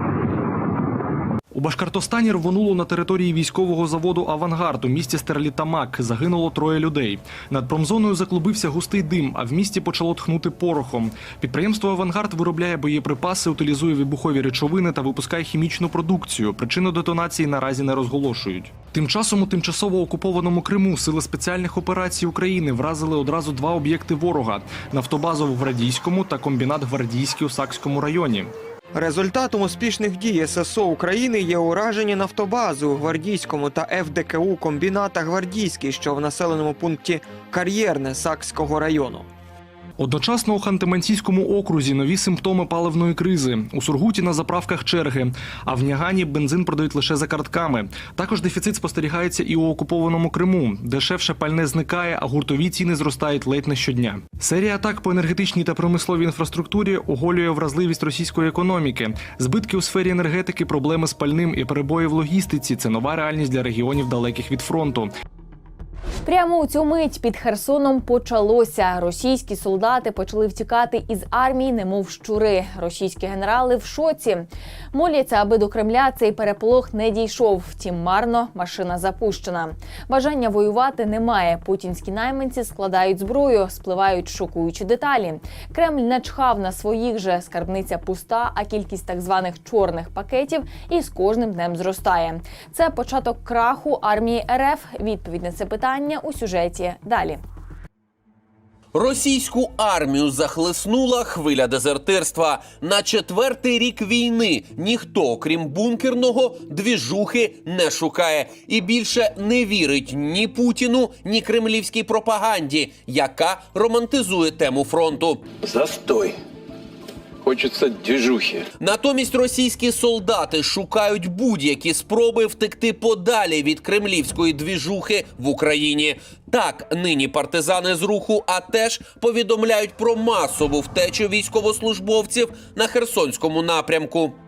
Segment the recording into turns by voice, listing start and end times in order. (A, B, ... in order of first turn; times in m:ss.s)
0:01.5-0:28.5 A
0:28.9-0:39.3 B
0:40.0-1:05.1 A
1:06.2-1:37.4 C
1:38.9-1:55.5 D
1:55.6-1:56.3 E
1:57.4-1:58.6 E
1:58.8-2:14.4 D